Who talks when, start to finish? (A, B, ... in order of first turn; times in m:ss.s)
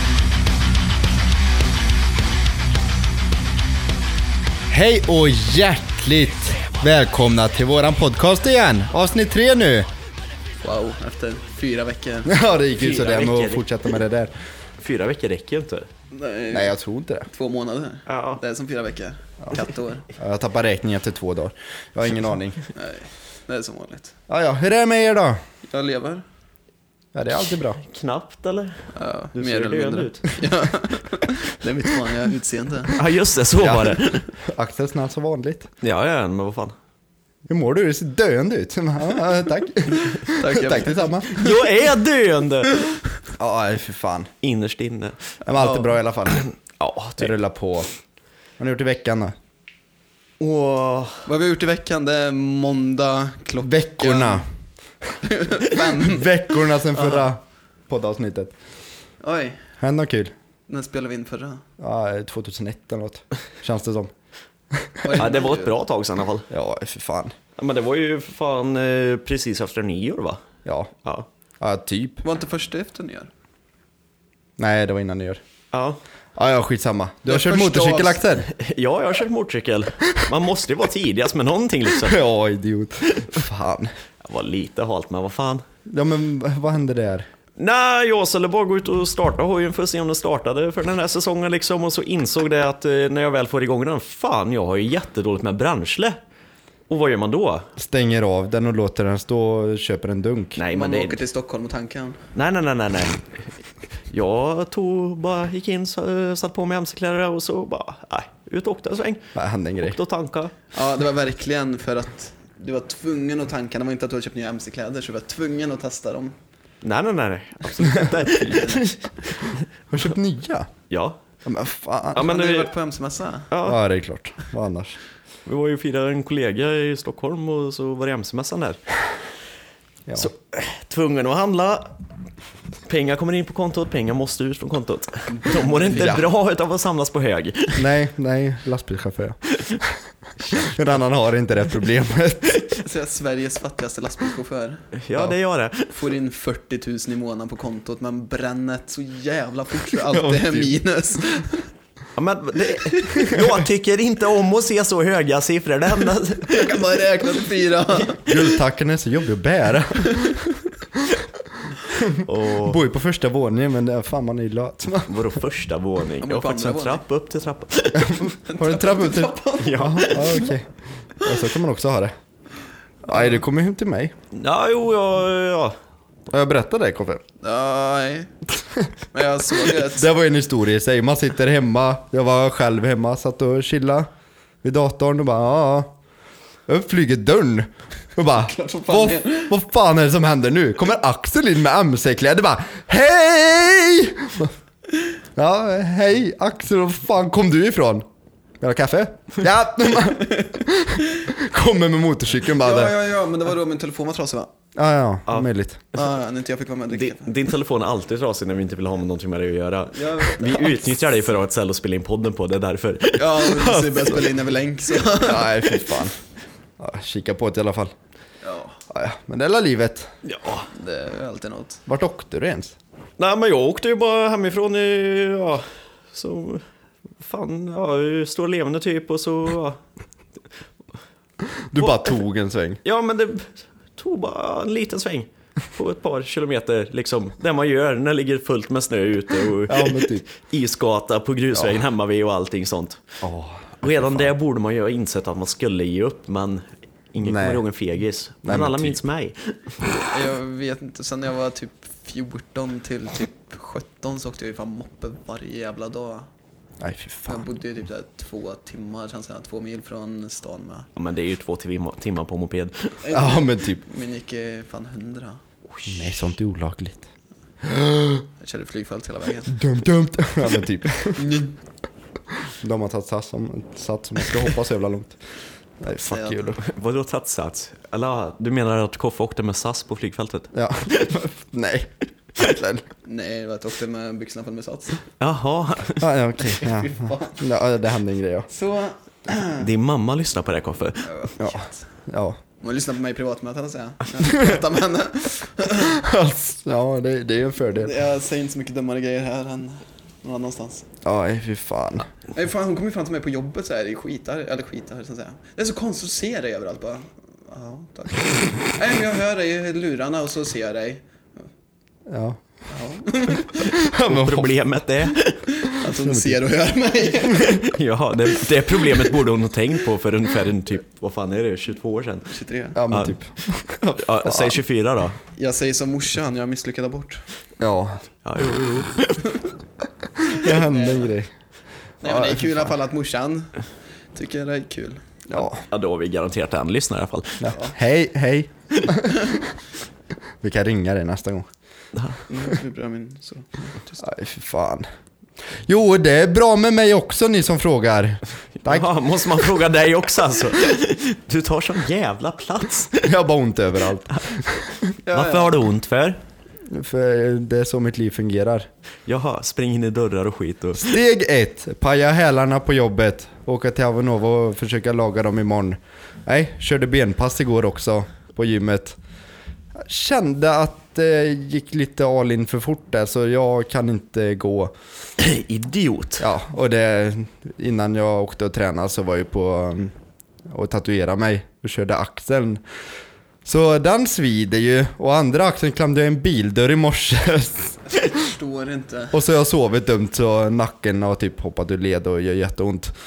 0:04.7-0:09.9 A
0:10.6-0:12.3 B
0:12.2-0:14.3 A
0:12.8-0:13.6 C
0:14.8-0:15.9 C
0:16.1-0:16.7 B
0:16.5-0:17.3 A
0:17.3-0:20.0 B
0:18.1-0:18.4 C
0:20.2-0:22.6 A
0:22.7-0:24.1 B
0:24.3-0:25.4 A
0:25.7-0:26.2 B
0:27.1-0:27.8 A
0:27.8-0:28.8 C
0:28.9-0:33.0 B
0:29.3-0:30.3 C
0:32.9-0:34.3 C
0:33.6-0:35.7 A
0:35.8-0:36.7 C
0:37.5-0:41.3 A
0:39.9-0:41.5 B
0:41.3-0:42.9 C
0:43.4-0:44.3 A
0:44.4-0:45.2 C
0:45.4-0:46.4 A
0:46.3-0:47.3 C
0:47.2-0:47.9 A
0:48.6-0:49.4 A
0:50.4-0:51.2 C
0:51.2-0:54.4 B
0:53.6-0:54.4 A
0:55.2-0:56.3 B
0:55.9-0:58.5 A
0:56.9-0:57.3 B
0:59.2-0:59.6 B
0:59.8-1:00.3 A
1:00.7-1:01.6 B
1:01.8-1:04.1 A
1:04.7-1:05.0 A
1:05.0-1:05.7 B
1:05.2-1:06.5 C
1:06.5-1:07.3 A
1:07.6-1:10.4 C
1:10.6-1:10.9 A
1:11.6-1:12.2 A
1:12.2-1:13.3 B
1:14.6-1:15.4 A
1:15.7-1:16.0 C
1:16.4-1:18.5 A
1:17.2-1:18.2 B
1:18.5-1:22.2 C
1:22.0-1:23.9 A
1:24.2-1:25.6 C
1:25.9-1:27.3 A
1:27.6-1:36.2 C
1:36.9-1:37.7 C
1:37.8-1:40.6 A
1:40.6-1:41.2 C
1:40.7-1:42.2 B
1:42.3-1:43.5 C
1:44.1-1:50.5 C
1:49.3-1:50.0 A
1:50.7-1:56.4 B
1:56.8-1:59.6 C
1:57.8-1:58.7 A
1:58.4-1:58.9 B
1:59.9-2:00.7 A
2:00.9-2:01.2 C
2:01.4-2:02.3 A
2:02.1-2:02.7 C
2:02.2-2:03.5 B
2:03.5-2:03.8 C
2:03.6-2:05.0 A
2:05.4-2:08.8 C
2:10.2-2:11.9 C
2:12.8-2:17.9 C
2:15.3-2:16.2 B
2:15.9-2:16.2 A
2:17.8-2:20.0 A
2:20.4-2:20.7 C
2:20.5-2:22.7 A
2:22.8-2:24.8 B
2:25.0-2:25.9 C
2:25.9-2:31.7 B
2:30.1-2:30.7 A
2:32.2-2:36.8 C
2:32.8-2:33.2 B
2:36.4-2:38.3 B
2:38.3-2:40.4 A
2:40.0-2:40.3 B
2:41.9-2:45.2 A
2:42.2-2:42.8 C
2:45.1-2:48.3 C
2:46.2-2:47.0 B
2:47.9-2:52.1 A
2:48.4-2:50.5 B
2:49.6-2:50.5 C
2:53.0-2:54.1 A
2:54.3-2:55.8 C
2:56.3-2:57.2 A
2:57.4-2:58.3 B
2:59.1-3:00.1 B
2:59.8-3:04.1 A
3:04.6-3:05.9 A
3:06.7-3:14.5 A
3:08.3-3:09.5 B
3:15.4-3:18.0 A
3:18.6-3:22.9 A
3:22.5-3:24.5 B
3:24.7-3:25.8 A
3:25.9-3:27.3 B
3:26.9-3:33.5 C
3:29.9-3:30.9 B
3:33.2-3:35.7 B
3:33.7-3:34.2 A
3:35.2-3:36.2 A
3:36.8-3:37.9 A
3:38.4-3:38.8 B
3:38.9-3:40.1 A
3:40.2-3:40.7 C
3:40.7-3:41.8 B
3:41.9-3:42.8 A
3:43.2-3:46.6 C
3:47.2-3:49.8 C
3:51.7-3:52.8 A
3:51.8-3:52.1 C
3:52.8-4:03.0 C
3:59.7-4:00.2 A
4:03.2-4:04.3 A
4:03.8-4:09.8 C
4:07.2-4:07.6 A
4:08.4-4:09.0 A
4:10.0-4:16.3 B
4:16.8-4:17.4 A
4:17.2-4:20.9 B
4:21.0-4:22.9 C
4:23.0-4:25.4 B
4:23.1-4:23.8 A
4:25.8-4:26.1 C
4:25.9-4:27.1 A
4:27.6-4:28.2 A
4:28.4-4:29.6 B
4:29.5-4:31.2 A
4:31.1-4:31.6 B
4:32.4-4:35.2 A
4:35.8-4:36.6 A
4:35.8-4:36.6 B
4:36.6-4:40.5 C
4:40.5-4:42.8 A
4:43.0-4:45.0 B
4:45.2-4:46.2 C
4:46.0-4:48.5 A
4:46.6-4:47.4 B
4:48.5-4:49.7 B
4:49.6-4:51.1 C
4:51.0-4:51.8 B
4:51.4-4:52.4 A
4:52.6-4:56.0 B
4:54.3-4:54.6 A
4:55.8-4:57.9 A
4:57.7-5:00.8 B
5:01.0-5:02.1 A
5:02.3-5:11.0 B
5:12.1-5:12.4 A
5:12.7-5:13.7 B
5:13.7-5:15.5 C
5:13.8-5:14.5 A
5:15.5-5:17.6 B
5:15.9-5:16.4 A
5:17.4-5:22.3 C
5:22.3-5:22.8 B
5:22.7-5:24.6 A
5:22.9-5:23.2 C
5:23.9-5:25.2 C
5:25.4-5:27.2 B
5:27.6-5:28.0 A
5:28.2-5:29.3 C
5:30.3-5:31.3 A
5:30.4-5:31.1 B
5:32.0-5:33.5 B
5:32.0-5:32.4 A
5:34.1-5:35.0 B
5:35.3-5:35.6 A
5:35.6-5:37.4 C
5:37.4-5:39.5 A
5:37.5-5:37.7 B
5:40.4-5:41.5 A
5:41.9-5:42.2 C
5:42.3-5:44.0 B
5:44.0-5:44.9 A
5:45.7-5:48.8 A
5:48.6-5:53.1 C
5:53.0-5:54.8 A
5:55.0-5:55.6 B
5:55.1-5:56.2 C
5:56.7-5:58.7 A
5:59.0-6:01.0 C
6:00.8-6:09.0 A
6:09.8-6:14.7 A
6:15.2-6:16.2 C
6:16.2-6:19.9 A
6:20.5-6:22.6 A
6:23.4-6:27.8 A
6:27.9-6:29.2 B
6:29.1-6:32.9 A